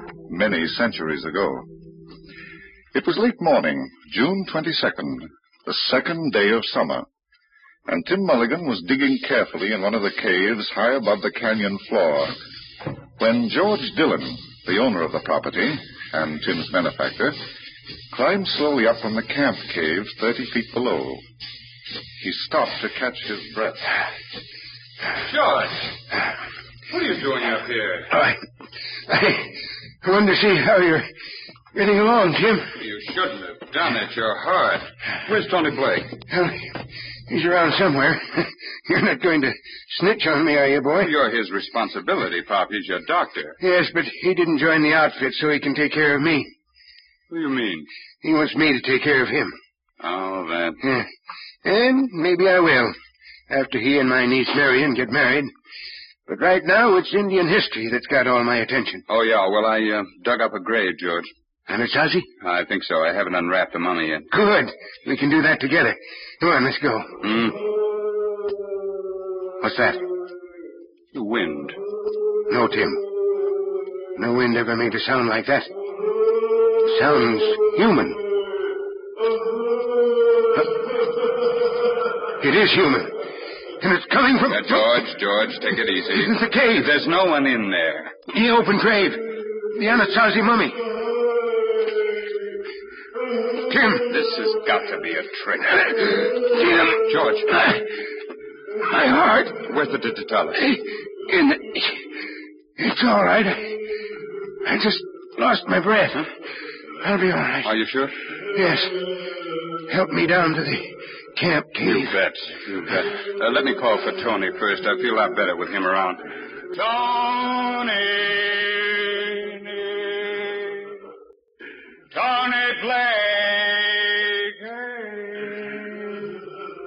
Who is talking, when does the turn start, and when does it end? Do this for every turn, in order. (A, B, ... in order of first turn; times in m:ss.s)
0:00.3-0:01.7 A
0:02.9-0:07.1 A
0:07.9-0:12.4 A
0:13.2-0:17.4 A
0:18.1-0:21.2 A
0:22.2-0:23.9 A
0:25.3-0:25.9 B
0:26.9-0:28.1 B
0:28.1-0:28.4 C
0:29.1-0:31.1 C
0:31.7-0:32.7 C
0:32.8-0:36.1 B
0:36.3-0:36.8 C
0:37.3-0:41.1 C
0:41.0-0:43.6 B
0:43.6-0:46.5 C
0:47.3-0:47.9 B
0:48.2-0:49.6 C
0:50.0-0:50.8 B
0:51.6-0:53.0 C
0:53.5-0:55.5 C
0:56.3-0:59.0 C
0:59.1-1:01.3 B
1:01.7-1:02.3 C
1:02.4-1:04.3 B
1:04.3-1:07.2 C
1:07.2-1:07.6 B
1:09.6-1:10.0 C
1:11.1-1:11.8 B
1:12.5-1:13.0 C
1:14.2-1:15.7 C
1:16.9-1:18.2 C
1:22.4-1:23.2 C
1:23.8-1:25.0 C
1:24.5-1:28.1 B
1:26.1-1:26.9 C
1:28.3-1:30.8 C
1:33.7-1:34.1 C
1:34.1-1:37.8 B
1:38.9-1:39.6 C
1:39.5-1:40.7 B
1:40.6-1:42.0 C
1:42.8-1:43.8 C
1:44.6-1:46.3 C
1:47.0-1:47.7 C
1:47.6-1:48.2 B
1:48.5-1:49.0 C
1:49.9-1:52.1 C
1:51.8-2:00.9 B
2:02.1-2:06.2 B